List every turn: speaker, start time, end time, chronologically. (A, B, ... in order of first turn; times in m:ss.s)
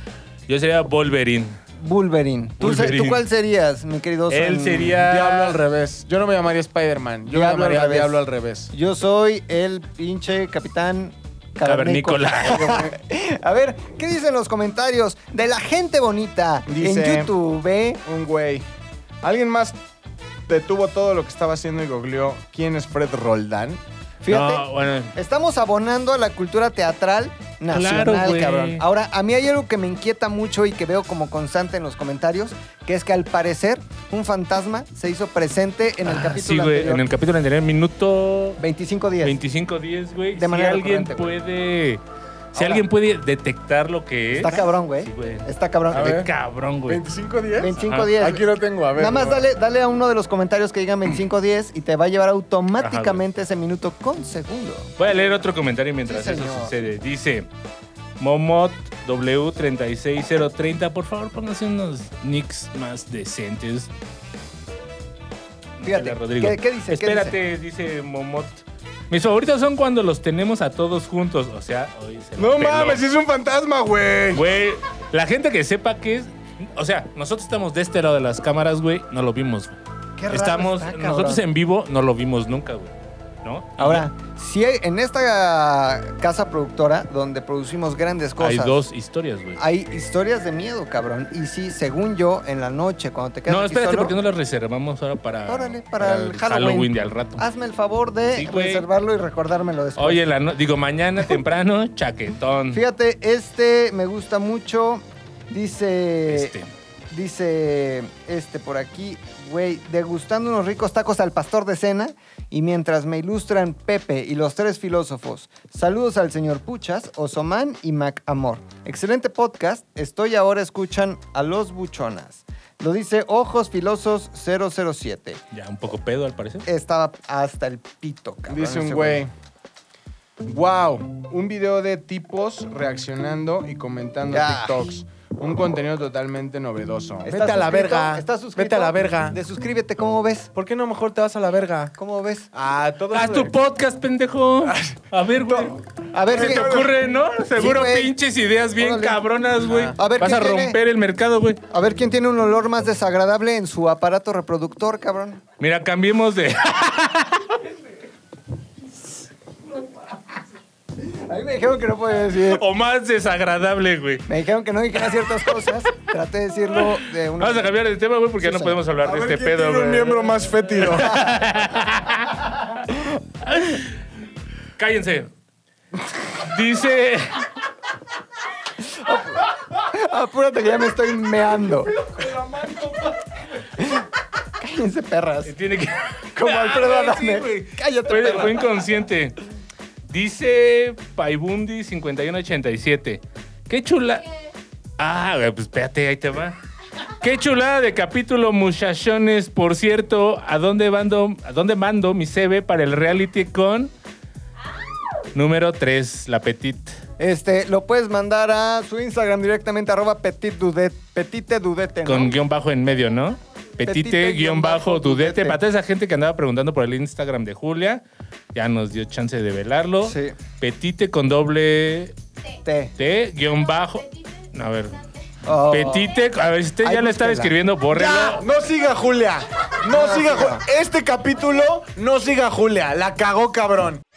0:00.5-0:01.6 A
0:01.8-0:05.0 B
0:02.6-0:03.2 A
0:04.3-0:05.6 A
0:05.0-0:08.7 C
0:07.3-0:18.0 B
0:11.6-0:12.8 A
0:12.6-0:13.0 C
0:16.7-0:17.3 C
0:18.0-0:18.6 C
0:19.2-0:19.8 C
0:20.5-0:23.8 C
0:24.2-0:37.0 B
0:24.3-0:25.1 A
0:27.7-0:28.8 A
0:36.1-0:38.6 A
0:38.6-0:39.4 B
0:39.2-0:42.0 A
0:40.4-0:41.4 B
0:42.5-0:47.0 A
0:42.6-0:42.8 C
0:44.4-0:46.2 B
0:45.9-0:46.3 C
0:46.9-0:49.5 C
0:47.6-0:55.1 B
0:47.8-0:48.1 A
0:52.8-0:53.2 A
0:55.0-0:57.5 A
0:56.1-0:56.8 B
0:58.2-1:03.9 A
1:05.8-1:13.0 A
1:05.8-1:07.4 B
1:12.4-1:14.5 C
1:14.3-1:19.8 A
1:20.2-1:21.4 B
1:20.3-1:22.9 A
1:23.4-1:24.1 A
1:23.8-1:28.8 B
1:28.4-1:29.6 A
1:29.6-1:34.2 B
1:33.5-1:37.4 A
1:35.5-1:40.2 B
1:38.4-1:38.9 A
1:40.0-1:42.8 A
1:42.7-1:46.5 B
1:46.3-1:46.7 A
1:47.1-2:05.4 B
2:05.5-2:06.7 A
2:06.6-2:09.2 B
2:08.5-2:09.3 C
2:10.4-2:19.4 C
2:14.3-2:14.9 B
2:17.2-2:20.5 B
2:20.6-2:22.0 C
2:22.0-2:22.5 B
2:22.5-2:23.5 C
2:23.1-2:31.6 A
2:24.6-2:25.7 C
2:26.1-2:27.0 B
2:26.3-2:26.9 C
2:27.6-2:28.1 B
2:28.8-2:29.2 B
2:29.6-2:30.0 C
2:30.0-2:30.8 B
2:31.7-2:35.4 B
2:35.6-2:37.5 A
2:41.0-2:42.6 B
2:42.4-2:44.3 A
2:44.3-2:47.8 B
2:47.4-2:52.8 A
2:48.4-2:48.8 B
2:49.0-2:51.3 C
2:53.4-2:54.0 A
2:54.8-2:55.3 A
2:56.4-2:57.5 A
2:58.8-3:02.0 B
3:03.8-3:04.1 B
3:04.6-3:05.6 B
3:05.5-3:09.4 A
3:06.3-3:08.9 B
3:10.1-3:14.2 A
3:15.0-3:16.6 A
3:17.2-3:23.9 A
3:25.3-3:27.0 A
3:27.2-3:32.4 B
3:32.1-3:38.0 A
3:33.8-3:35.6 B
3:38.5-3:42.1 A
3:40.0-3:40.4 B
3:42.6-3:42.9 B
3:43.0-3:45.0 A
3:45.5-3:46.1 B
3:45.7-3:48.4 A
3:46.8-3:47.6 B
3:47.9-3:54.0 C
3:49.9-3:50.6 B